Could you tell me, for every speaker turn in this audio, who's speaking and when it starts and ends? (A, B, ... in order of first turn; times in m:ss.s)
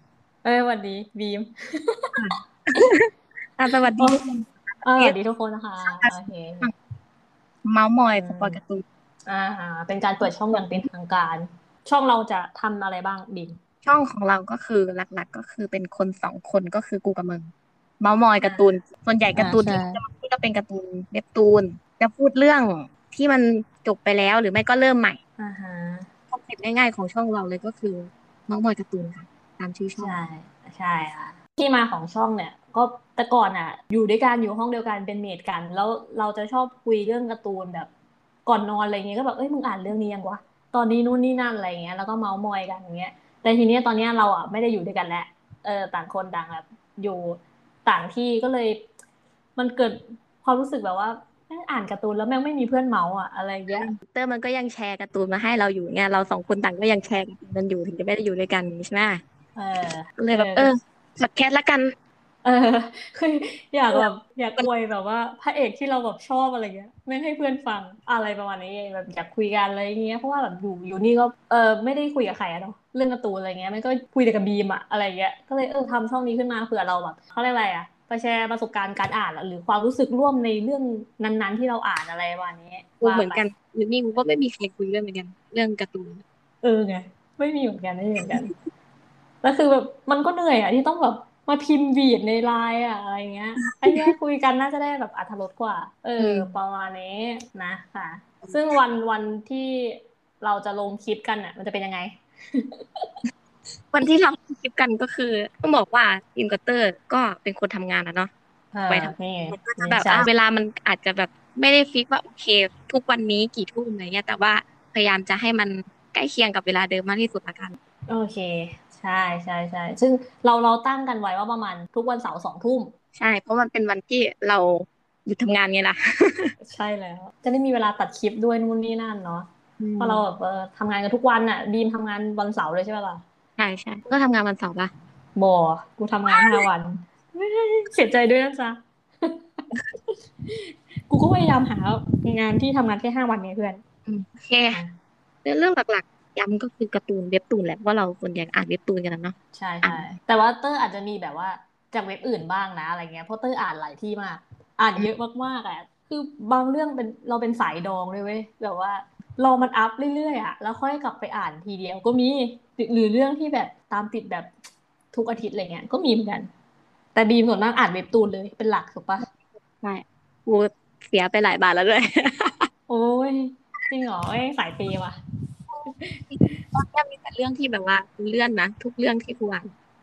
0:00.4-0:02.8 A
0:02.2-0:05.1 B
0:03.9-0:04.2 A
0:04.8-0:06.7 A
0:05.8-0:06.7 B
0:07.6-0:08.8 B
0:08.1-0:08.6 A
0:09.2-0:13.6 A
0:13.8-0:25.2 B
0:18.4-0:18.7 A
0:19.4-0:20.0 A
0:25.4-0:26.1 A
0:26.3-0:30.1 B
0:30.0-0:37.9 A
0:38.4-0:48.8 A
0:49.6-0:53.9 A
0:53.7-0:59.2 B
0:59.6-1:00.7 A
1:00.2-1:01.9 B
1:02.4-1:23.4 A
1:03.9-1:04.7 B
1:23.0-1:26.2 B
1:26.6-1:28.5 A
1:29.4-1:43.1 A
1:33.6-1:34.1 B
1:36.2-1:36.5 B
1:43.9-1:48.3 B
1:48.7-1:50.3 A
1:48.9-1:57.8 B
1:58.1-2:02.9 A
2:03.1-2:06.5 B
2:06.6-2:09.5 A
2:09.8-2:10.2 B
2:10.0-2:13.2 A
2:13.6-2:14.9 B
2:15.3-2:23.8 A
2:16.3-2:16.7 B
2:24.0-2:24.8 B
2:25.4-2:30.0 B
2:29.5-2:44.5 A
2:45.1-2:46.5 A
2:47.1-2:49.3 A
2:49.8-2:52.7 B
2:52.9-2:55.2 A
2:55.7-2:59.7 B
2:55.8-2:56.6 A